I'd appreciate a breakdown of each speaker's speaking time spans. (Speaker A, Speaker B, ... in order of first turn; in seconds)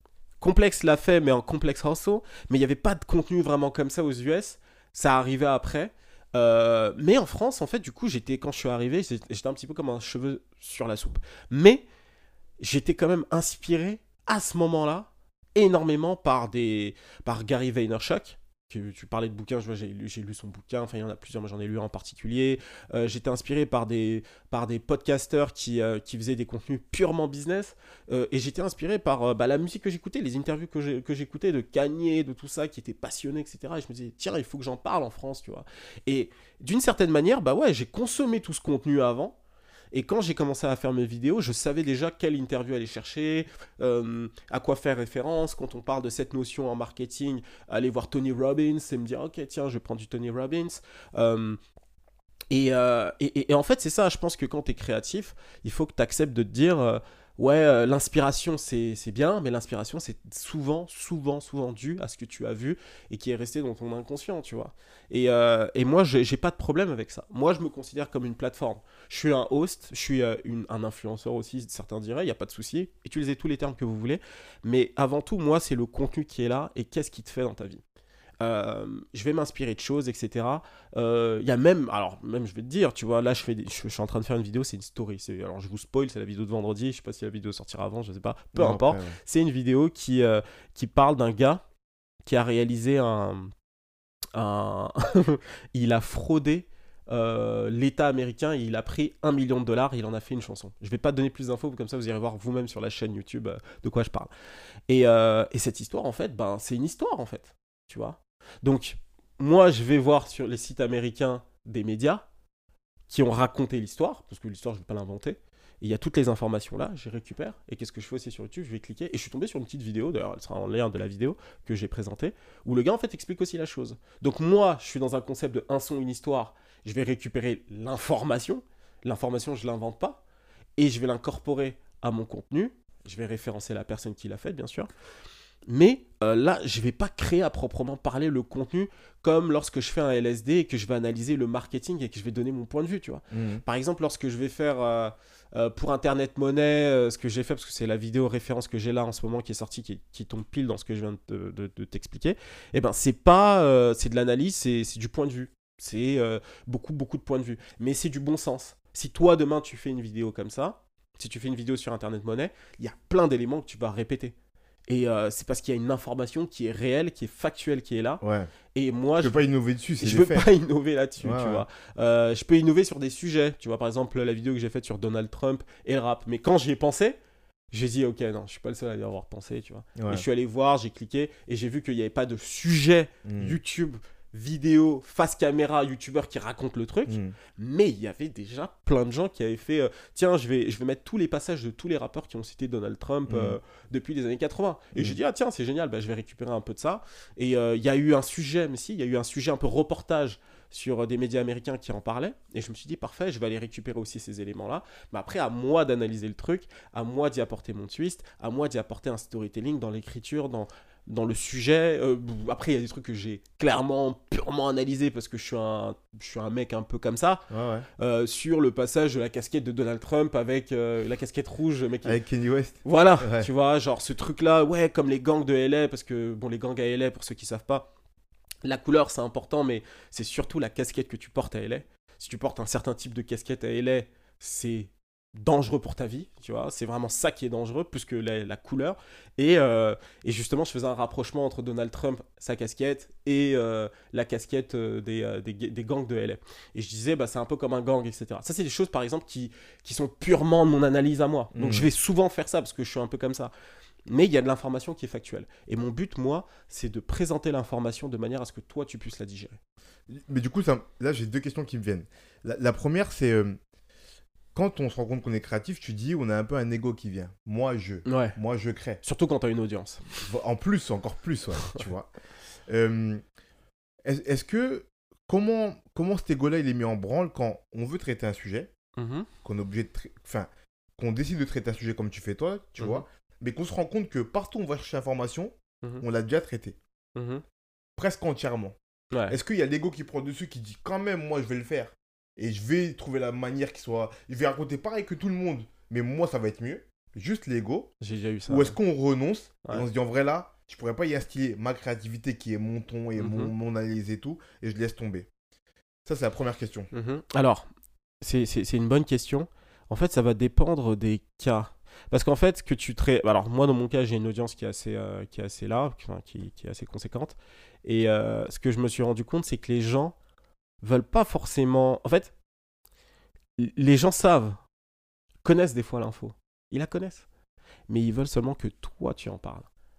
Speaker A: 0.4-11.8, 12.6-39.4, 39.9-51.6, 52.5-77.8, 78.4-91.6, 92.2-93.5, 94.3-104.3, 104.9-112.3, 113.1-130.2, 130.8-134.9, 135.7-164.3, 164.9-168.2, 168.7-169.4, 170.0-177.2, 177.7-217.4, 218.0-222.2, 222.8-227.9, 228.6-253.5, 254.1-259.6, 268.1-268.4, 269.0-270.1, 279.0-279.3, 282.8-283.0, 287.1-287.4, 289.1-289.4, 298.0-298.8, 303.2-303.5, 306.9-307.7, 308.2-320.1, 320.8-322.3, 323.6-324.6, 325.4-327.3, 327.9-329.7
Speaker B: 88.5-89.2, 143.3-143.6, 168.2-168.5, 169.2-170.5, 171.2-171.7, 180.0-180.2, 183.2-183.6, 187.1-187.3, 193.3-193.6, 217.5-217.9, 222.0-223.5, 251.5-251.9, 260.1-263.6, 264.6-269.0, 270.2-272.1, 272.7-273.2, 274.1-278.7, 279.4-286.8, 288.0-288.8, 289.3-297.9, 298.5-305.3, 306.1-306.9